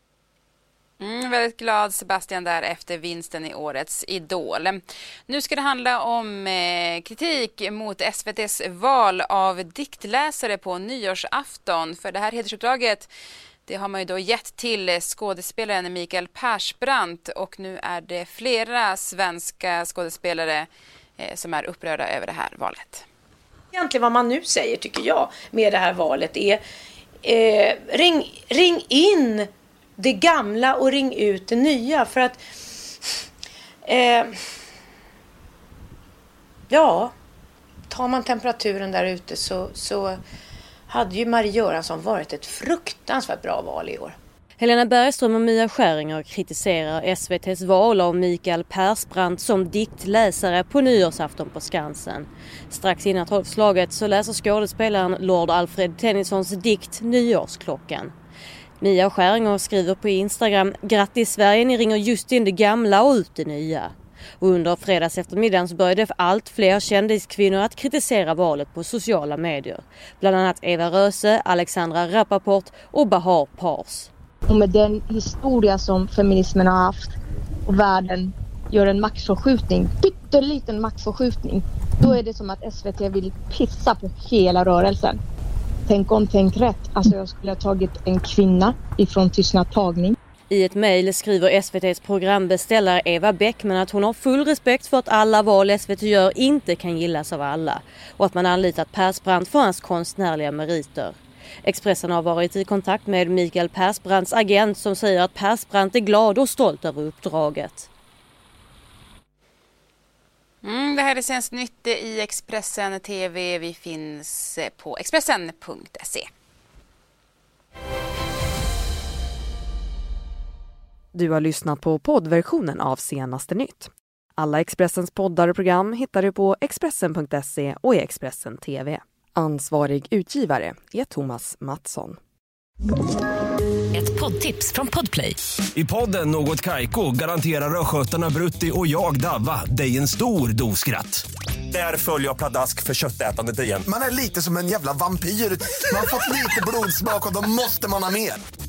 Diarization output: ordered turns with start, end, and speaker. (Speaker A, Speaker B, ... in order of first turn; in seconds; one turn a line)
Speaker A: 1.0-13.1
Speaker A: 13.7-23.1
Speaker B: 23.7-26.6
Speaker B: 27.2-32.4
Speaker B: 33.9-34.4
Speaker B: 36.7-37.1
Speaker B: 37.9-40.2
Speaker B: 40.9-44.2
Speaker C: 44.6-58.1
Speaker C: 58.8-74.1
Speaker D: 74.5-77.1
Speaker D: 77.7-85.2
Speaker D: 85.9-90.2
Speaker C: 90.5-107.9
Speaker A: 110.6-116.3
Speaker E: 121.1-132.2
Speaker B: 134.0-135.3
Speaker F: 135.7-143.8
Speaker G: 143.8-148.4